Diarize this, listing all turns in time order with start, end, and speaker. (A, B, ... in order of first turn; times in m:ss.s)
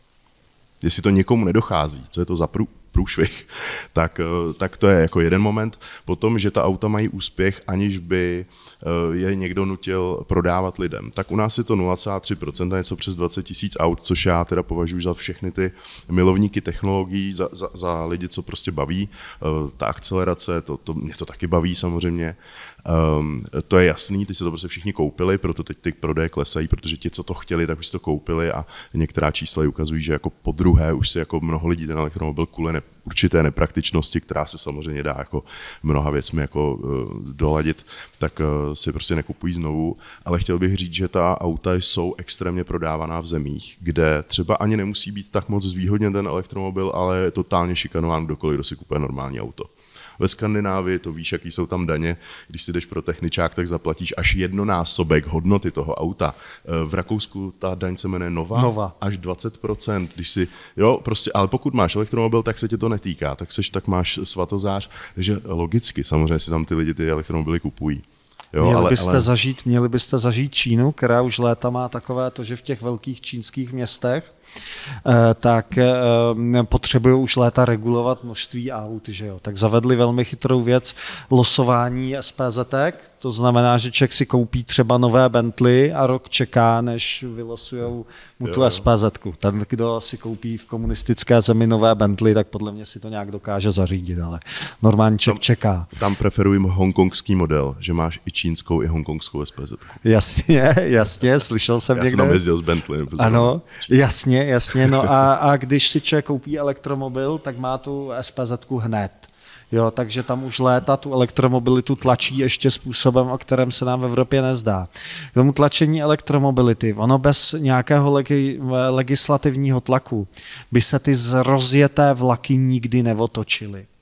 0:00.8-1:09.3 A
0:58.6-0:58.9 B
1:08.6-1:14.3 B
1:15.0-1:35.9 B
1:28.4-1:28.8 A
1:35.9-1:40.0 A
1:40.0-1:42.4 B
1:41.9-1:43.9 A
1:43.2-2:03.9 B
1:44.7-1:45.0 A